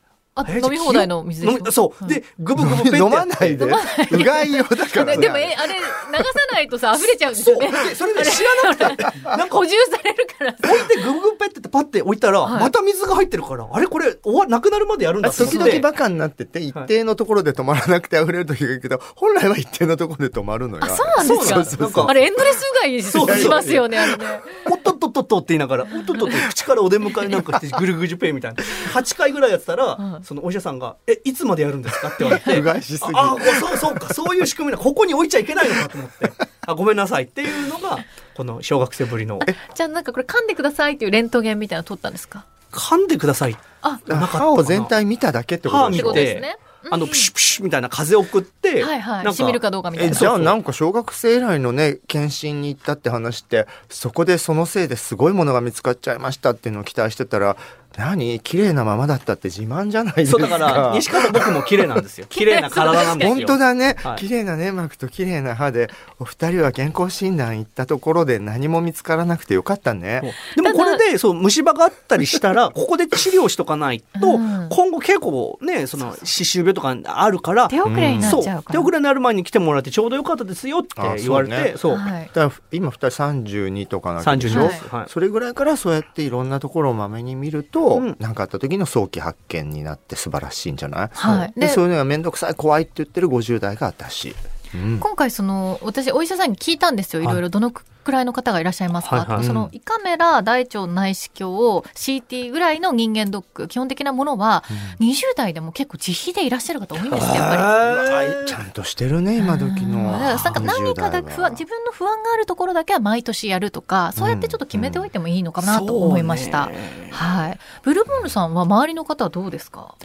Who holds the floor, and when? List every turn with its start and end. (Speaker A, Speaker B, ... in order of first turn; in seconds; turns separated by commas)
Speaker A: 0.3-2.2, Speaker B: 0.4-3.7, Speaker C: 2.6-6.3, Speaker A: 3.6-10.9, Speaker B: 7.3-9.7, Speaker C: 9.0-9.4, Speaker B: 10.6-15.9, Speaker A: 12.4-12.7, Speaker C: 15.2-22.3, Speaker A: 15.3-15.8, Speaker A: 20.8-24.7, Speaker B: 21.2-22.2, Speaker B: 23.0-39.5, Speaker C: 23.2-24.0, Speaker A: 25.9-26.5, Speaker A: 30.0-30.2, Speaker C: 32.2-34.2, Speaker A: 39.4-42.5, Speaker B: 42.7-44.9, Speaker C: 44.1-46.3, Speaker B: 45.6-50.5, Speaker A: 46.0-47.3, Speaker A: 48.8-50.3, Speaker C: 50.0-61.9, Speaker B: 60.2-64.2, Speaker A: 62.3-63.5, Speaker C: 62.9-70.3, Speaker B: 70.2-82.1, Speaker A: 70.5-71.0, Speaker A: 74.2-74.8, Speaker A: 77.7-78.9, Speaker C: 77.8-78.5, Speaker C: 81.0-95.0, Speaker A: 81.9-82.3, Speaker B: 84.2-85.1, Speaker A: 84.5-84.8, Speaker A: 91.1-91.8, Speaker A: 95.0-107.8, Speaker B: 99.0-99.5, Speaker C: 99.4-99.7, Speaker C: 104.7-105.0, Speaker B: 107.0-108.6, Speaker C: 107.8-111.6, Speaker A: 109.4-120.0, Speaker B: 110.1-110.7, Speaker C: 114.2-115.1, Speaker B: 115.6-117.3